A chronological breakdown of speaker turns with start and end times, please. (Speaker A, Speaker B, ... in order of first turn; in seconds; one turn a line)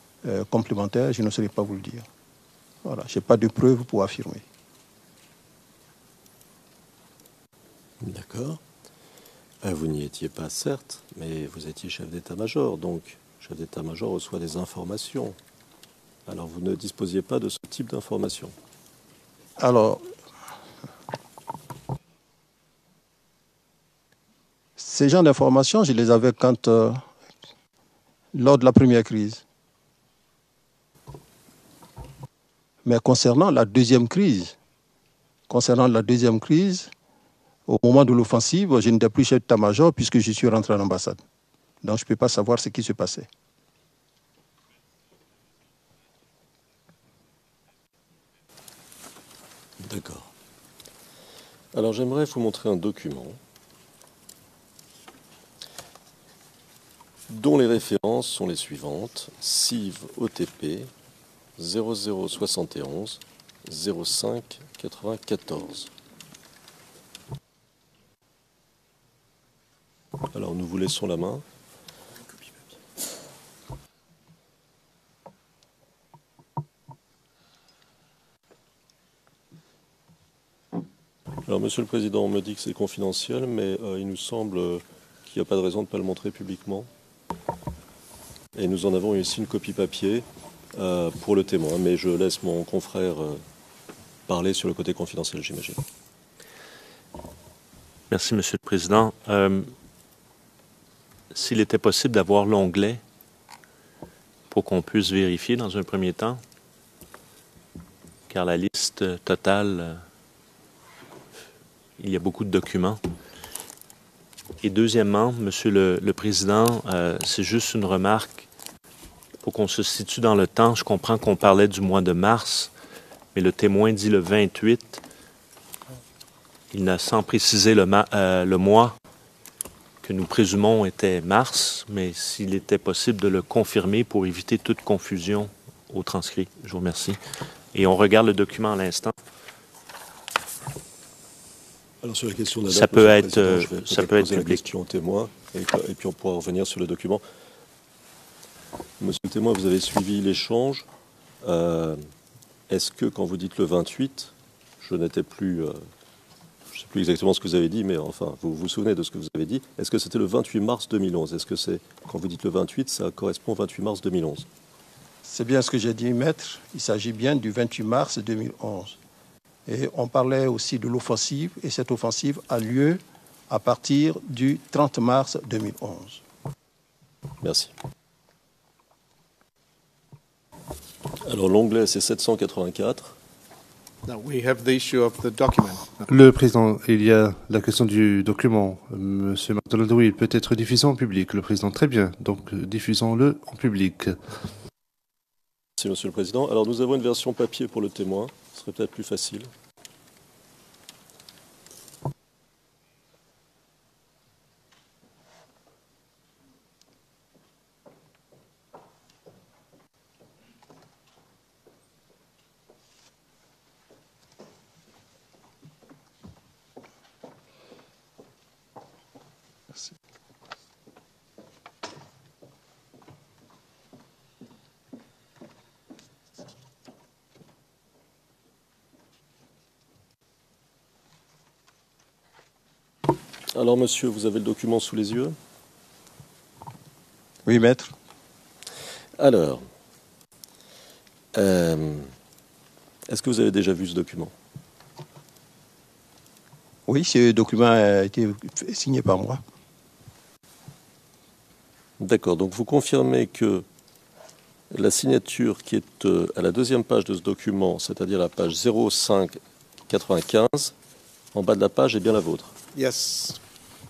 Speaker A: 0.2-2.0
Speaker A: 2.8-4.4
Speaker B: 8.0-8.6
Speaker B: 9.6-15.4
Speaker B: 16.2-18.5
Speaker A: 19.6-20.0
Speaker A: 24.8-27.0
Speaker A: 28.3-29.4
Speaker A: 32.8-34.5
Speaker A: 35.5-36.9
Speaker A: 37.7-41.2
Speaker A: 41.8-43.3
Speaker B: 49.8-50.3
Speaker B: 51.7-53.4
Speaker B: 57.3-60.9
Speaker B: 61.6-65.9
Speaker B: 70.3-71.4
Speaker B: 81.4-86.9
Speaker B: 88.5-93.4
Speaker B: 94.3-95.8
Speaker C: 98.1-99.7
Speaker C: 101.3-103.0
Speaker C: 104.5-106.4
Speaker C: 108.3-110.0
Speaker C: 112.0-113.0
Speaker C: 114.6-118.5
Speaker C: 119.4-122.7
Speaker C: 123.3-125.0
Speaker C: 126.7-128.9
Speaker C: 130.0-137.2
Speaker C: 137.7-139.1
Speaker B: 142.0-147.2
Speaker C: 142.7-144.6
Speaker B: 149.0-150.8
Speaker B: 151.4-152.0
Speaker B: 152.7-155.8
Speaker B: 156.7-164.5
Speaker A: 165.2-169.0
Speaker A: 169.7-176.2
Speaker B: 177.4-177.7
Speaker B: 181.2-183.2
Speaker D: 184.1-186.1
Speaker E: 186.1-194.2
Speaker B: 195.8-199.5
Speaker B: 233.5-235.3
Speaker A: 237.4-237.9
Speaker B: 239.2-239.6
Speaker B: 241.3-242.1
Speaker B: 243.1-244.3
Speaker A: 246.9-249.4
Speaker B: 252.0-253.6
Speaker B: 254.7-260.7
Speaker B: 261.3-262.5
Speaker D: 262.7-263.4